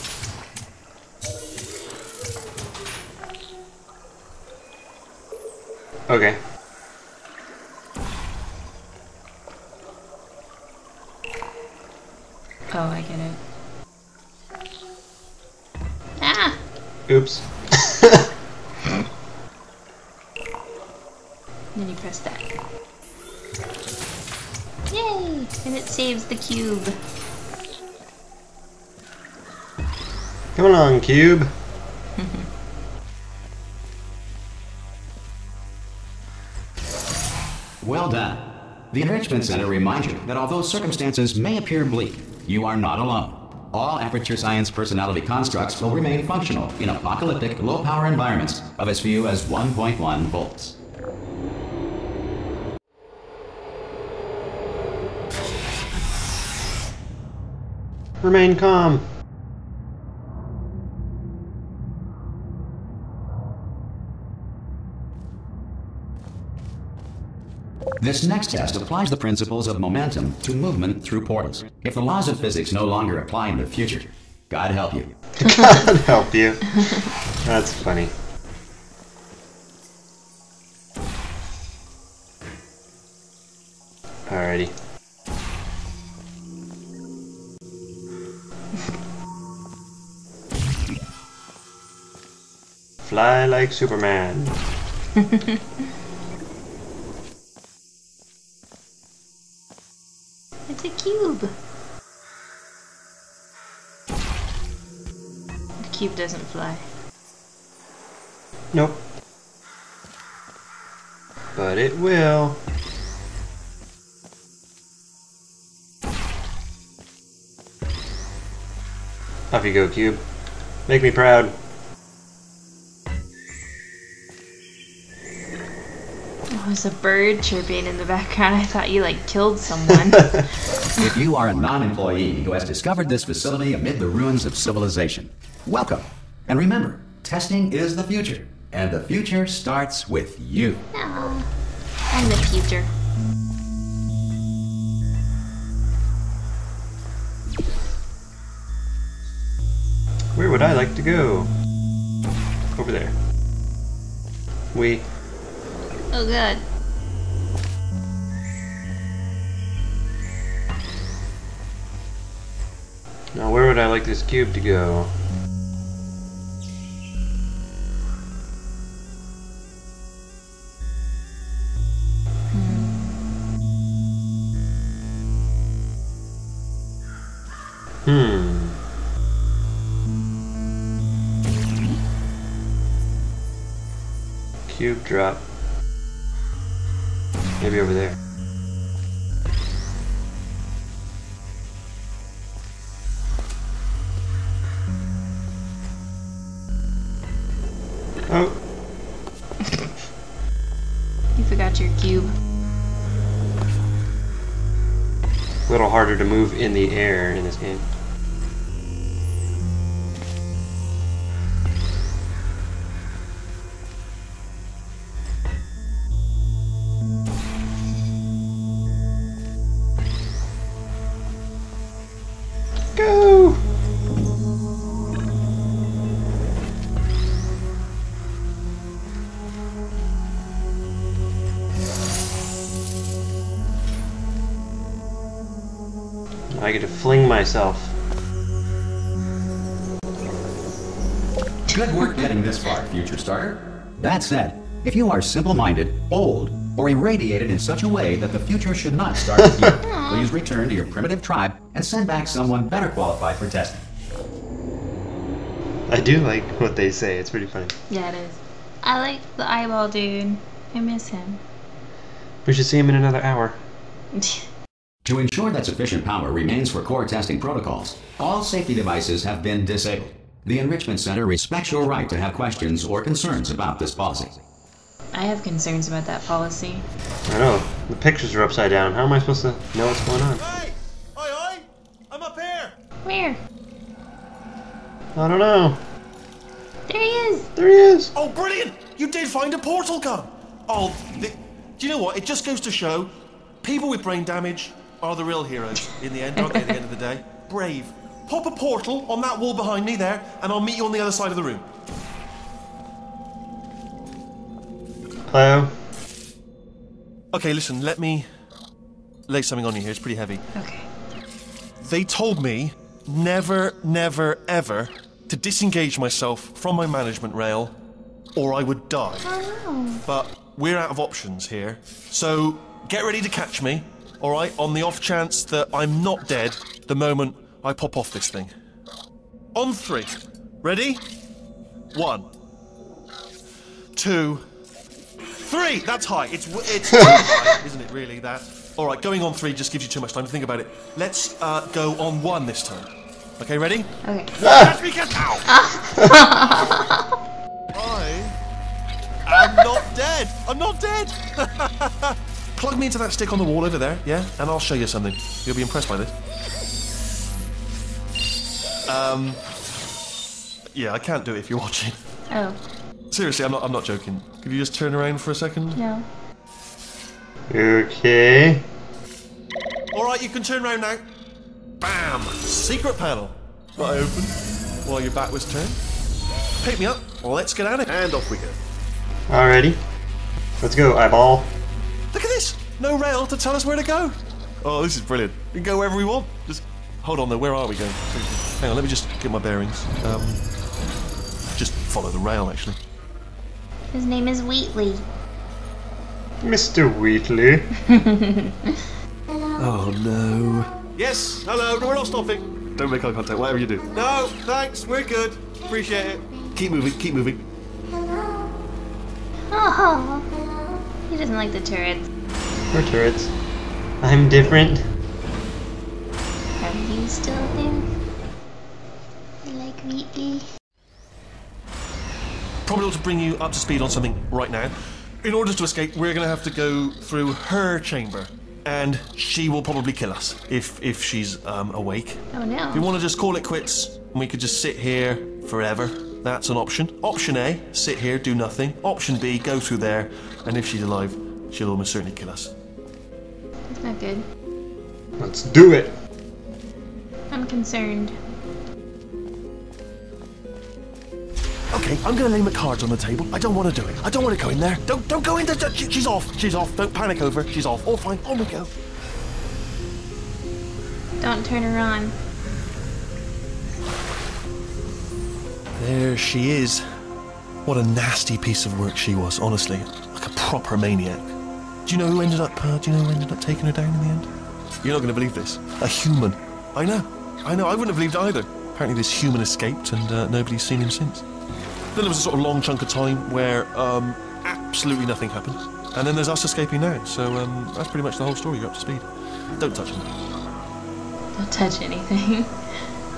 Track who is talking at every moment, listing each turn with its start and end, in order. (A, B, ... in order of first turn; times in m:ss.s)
0:06.1-0:06.4 A
0:12.7-0:13.4 B
0:16.2-0:16.6 B
0:17.1-0:18.2 A
0:21.8-0:22.5 B
0:24.9-0:27.0 B
0:30.6-0:31.5 A
0:32.2-0:32.4 B
0:37.8-0:50.8 C
0:58.2-0:59.0 A
1:08.0-1:15.1 C
1:15.4-1:18.1 A
1:24.3-1:24.7 A
1:33.0-1:34.6 A
1:40.7-1:41.5 B
1:45.8-1:46.8 B
1:48.7-1:49.0 A
1:51.6-1:52.6 A
1:59.5-2:00.2 A
2:00.9-2:01.6 A
2:06.5-2:10.5 B
2:11.0-2:20.8 C
2:20.9-2:21.5 B
2:22.1-2:22.9 B
2:30.4-2:31.5 A
2:32.8-2:33.2 A
2:34.7-2:35.0 A
2:36.1-2:36.6 B
2:43.3-2:45.1 A
2:52.5-2:53.2 B
2:58.0-2:58.8 A
3:04.7-3:05.4 A
3:07.6-3:08.2 A
3:18.3-3:18.6 A
3:21.4-3:22.3 B
3:25.7-3:27.8 A
3:43.0-3:43.6 A
3:56.5-3:58.0 A
4:01.7-4:13.8 C
4:09.4-4:09.8 A
4:09.8-4:10.3 B
4:15.9-4:17.7 A
4:17.9-4:21.4 B
4:22.4-4:23.6 A
4:24.1-4:24.5 B
4:25.0-4:34.4 C
4:35.1-4:36.8 B
4:37.3-4:40.4 A
4:40.4-4:42.8 D
4:43.0-4:43.4 B
4:45.2-4:45.8 A
4:46.9-4:47.5 B
4:47.6-4:48.1 A
4:48.2-4:53.1 D
4:53.6-5:01.7 D
5:05.3-5:05.7 A
5:07.3-5:08.3 D
5:09.3-5:10.4 D
5:10.6-5:10.9 B
5:11.8-5:17.7 D
5:18.4-5:19.3 D
5:19.2-5:20.0 B
5:20.0-5:28.5 D
5:29.6-5:31.0 D
5:31.9-5:32.3 D
5:34.0-5:34.4 D
5:35.4-5:45.5 D
5:44.0-5:44.3 B
5:44.4-5:44.7 A
5:45.5-5:47.0 B
5:47.7-5:48.4 D
5:49.3-5:56.1 D
5:58.9-5:59.4 D
6:00.7-6:02.0 D
6:02.3-6:02.6 B
6:03.1-6:05.8 D
6:05.7-6:06.1 B
6:07.5-6:08.6 A
6:09.9-6:11.0 D
6:11.8-6:15.8 D
6:16.6-6:18.6 D
6:19.3-6:19.8 A
6:20.6-6:21.5 A
6:22.1-6:30.4 D
6:31.6-6:32.8 D
6:33.9-6:35.0 B
6:36.4-6:37.7 A
6:37.9-6:38.4 B
6:39.6-6:47.4 D
6:49.5-6:50.3 B
6:51.1-6:52.1 B
6:52.7-6:53.3 A
6:54.0-6:54.8 A
6:56.6-6:57.9 B
6:59.4-7:00.5 B
7:02.6-7:22.5 D
7:12.3-7:12.9 B
7:23.7-7:24.2 B
7:25.2-7:25.9 A
7:27.3-7:28.2 B
7:31.7-7:38.7 D
7:41.2-7:42.2 B
7:45.8-7:46.8 D
7:47.6-7:51.3 D
7:51.9-7:54.3 D
7:54.8-8:01.2 D
8:01.9-8:09.1 D
8:09.6-8:10.1 D
8:11.4-8:12.5 B